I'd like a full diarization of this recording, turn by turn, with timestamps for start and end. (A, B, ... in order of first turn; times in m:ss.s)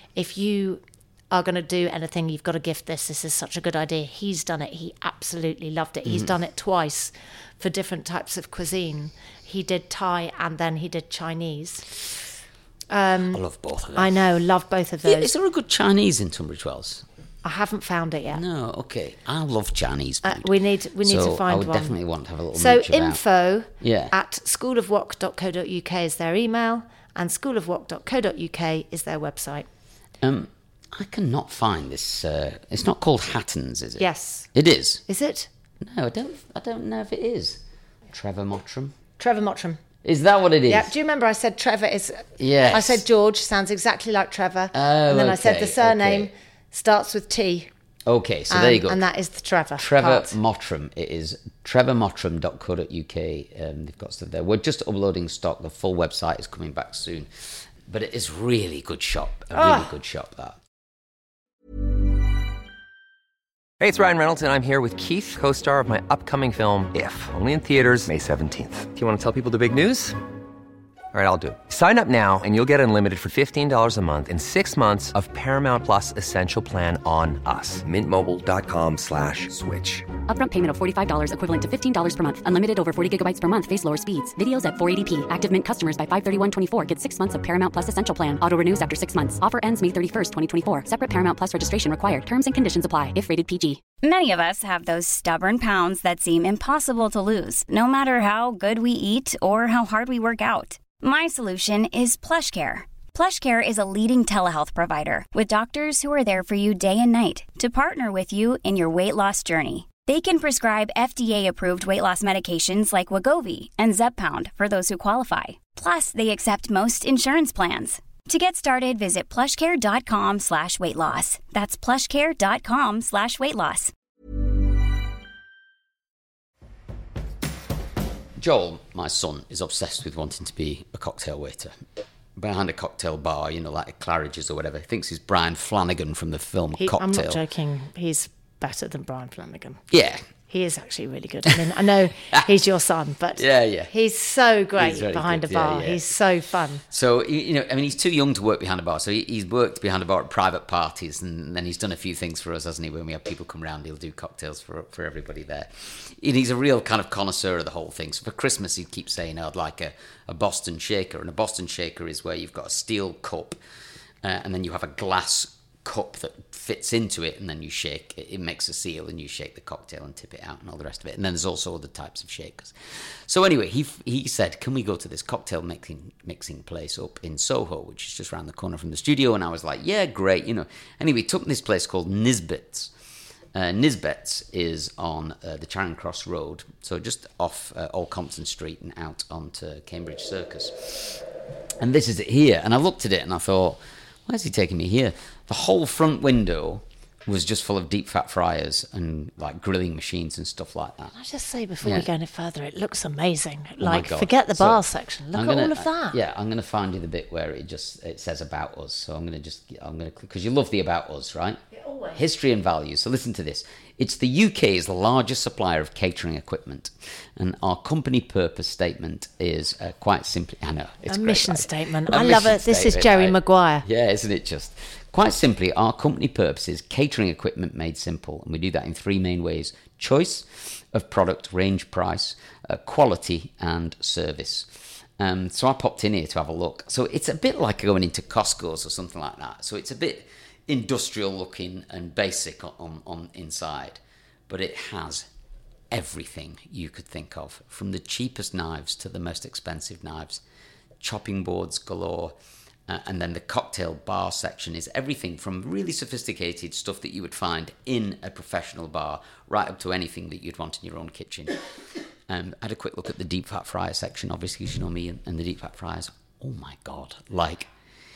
0:00.1-0:11.9 A
0:12.9-0:13.4 A
0:13.3-0:14.2 B
0:13.9-0:15.3 A
0:15.0-0:17.0 B
0:17.4-0:18.4 A
0:18.3-0:23.2 B
0:20.2-0:22.0 A
0:22.5-0:29.7 A
0:23.8-0:24.1 B
0:30.2-0:35.0 B
0:34.0-0:34.5 A
0:35.1-0:35.5 A
0:35.8-0:39.0 B
0:39.2-0:39.8 A
0:40.0-0:40.9 B
0:40.7-0:47.7 A
0:42.4-0:43.0 B
0:44.7-0:46.3 B
0:48.1-0:49.0 B
0:48.5-0:50.4 A
0:49.8-1:00.6 B
0:59.5-0:59.9 A
1:03.8-1:10.2 C
1:11.1-1:20.1 C
1:20.3-1:33.8 D
1:34.0-2:03.9 E
2:08.4-2:11.7 B
2:12.4-2:17.4 B
2:16.8-2:19.8 A
2:19.9-2:20.2 B
2:20.5-2:26.8 A
2:23.4-2:23.9 B
2:24.8-2:26.1 B
2:26.9-2:43.6 B
2:44.2-2:52.7 B
2:53.3-3:02.9 B
3:03.5-3:11.2 B
3:11.8-3:21.1 B
3:21.1-3:26.2 A
3:23.8-3:24.8 B
3:25.3-3:31.6 B
3:31.8-3:32.2 A
3:32.1-4:05.3 B
3:41.1-3:43.8 A
4:05.9-4:10.4 B
4:11.0-4:12.3 B
4:12.9-4:21.6 B
4:22.3-4:27.7 B